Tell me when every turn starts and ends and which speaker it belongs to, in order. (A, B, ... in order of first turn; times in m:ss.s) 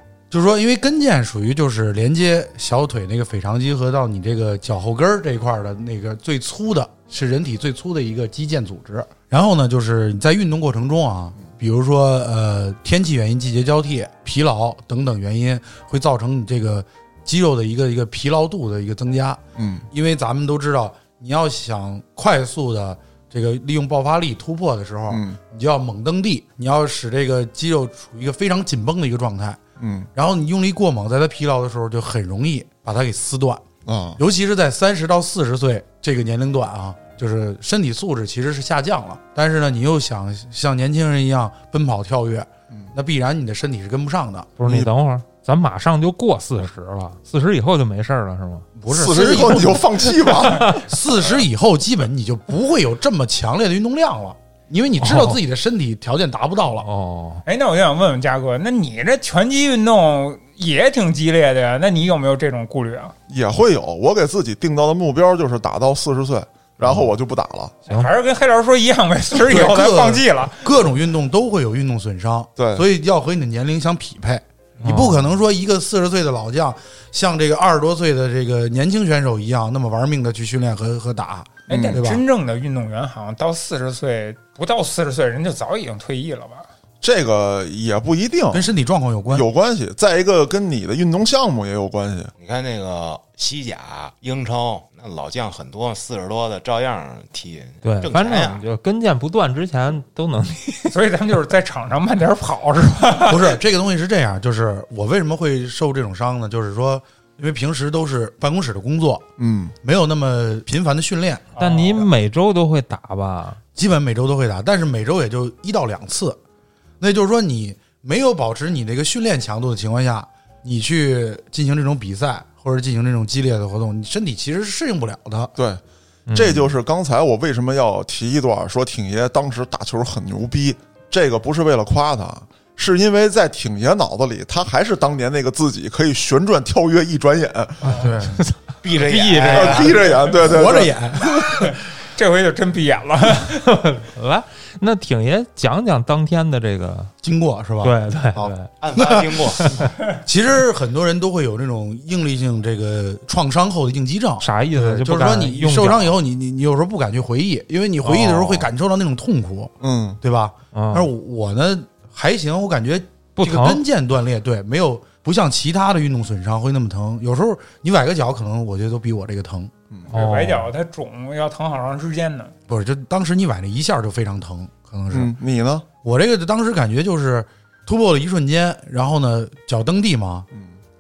0:00.3-0:29.6 A
0:19.6-0:19.9 B
0:25.1-0:25.4 B
0:29.8-0:30.1 B
0:30.2-0:33.6 A
0:33.8-0:34.2 B
0:34.2-0:44.5 A
0:44.6-0:48.7 C
0:48.8-0:50.0 A
0:48.9-0:50.9 B
0:50.6-0:56.9 A
0:55.0-0:55.4 C
0:56.8-0:57.4 C
0:57.5-1:03.1 D
1:03.3-1:07.8 B
1:06.8-1:07.1 C
1:07.9-1:10.7 D
1:09.4-1:22.2 A
1:12.6-1:12.8 B
1:14.8-1:15.2 C
1:21.7-1:26.7 D
1:21.7-1:22.0 B
1:27.0-1:28.7 B
1:28.5-1:29.5 A
1:29.3-1:32.3 B
1:32.4-1:38.6 E
1:37.8-1:40.9 C
1:40.9-1:43.5 D
1:43.3-1:49.2 A
1:49.4-1:49.8 B
1:49.8-1:51.5 A
1:51.6-1:52.1 D
1:51.6-1:53.6 C
1:53.8-1:56.4 A
1:57.0-2:05.5 A
2:05.6-2:05.8 B
2:06.3-2:06.7 C
2:06.3-2:18.1 B
2:17.9-2:18.4 A
2:17.9-2:20.1 C
2:18.8-2:20.1 E
2:19.5-2:21.1 B
2:20.4-2:21.8 A
2:21.5-2:23.6 D
2:23.4-2:27.1 C
2:27.2-2:29.4 A
2:27.8-2:28.7 C
2:28.8-2:29.9 E
2:29.6-2:29.9 C
2:30.1-2:49.7 A
2:34.4-2:36.2 C
2:38.0-2:38.7 C
2:39.8-2:40.2 B
2:40.7-2:41.1 C
2:43.4-2:43.8 C
2:50.1-2:52.5 D
2:50.1-2:50.7 C
2:52.7-2:55.4 A
2:55.1-2:55.9 B
2:56.0-3:00.5 A